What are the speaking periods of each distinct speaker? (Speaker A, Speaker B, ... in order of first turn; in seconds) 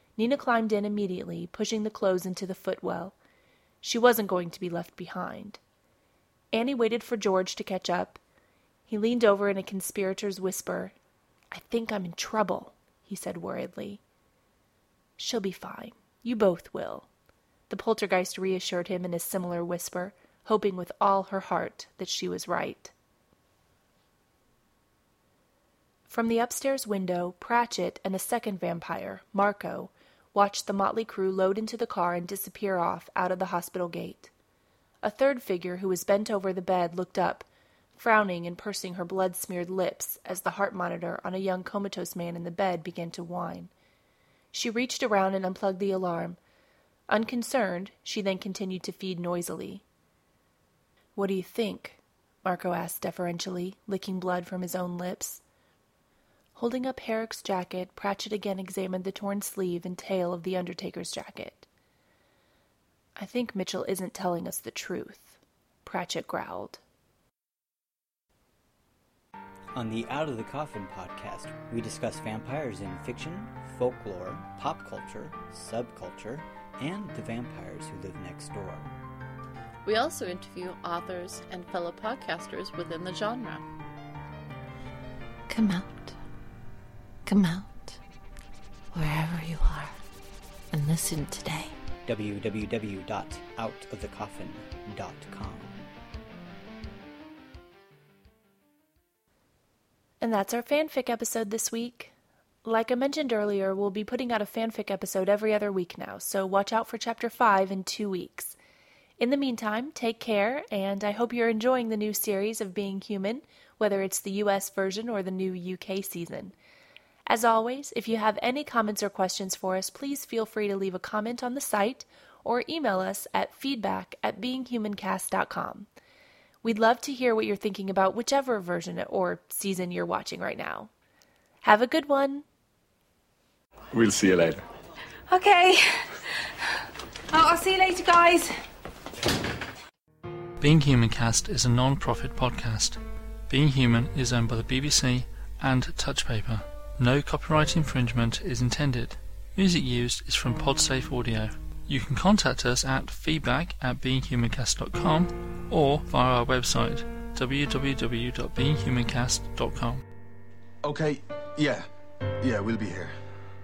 Speaker A: 0.2-3.1, 3.8-5.6, 6.5-8.2, 8.9-10.9, 11.5-14.0, 15.2-17.1, 17.7-22.9, 26.1-34.3, 35.0-43.7, 44.5-46.4, 47.1-49.8, 51.1-55.4, 56.5-61.7, 63.1-66.8, 100.2-102.1, 102.6-108.6, 109.2-116.5, 117.3-125.9, 126.6-130.9, 131.6-132.4
Speaker B: 69.7-78.9, 92.0-95.8
Speaker C: 79.8-83.6
Speaker D: 85.5-86.1, 87.2-88.0, 88.9-89.9, 90.7-91.7
Speaker E: 133.9-134.6, 160.8-161.9, 162.4-163.2
Speaker F: 135.3-136.1, 137.3-138.6
Speaker G: 140.6-143.0, 143.5-160.0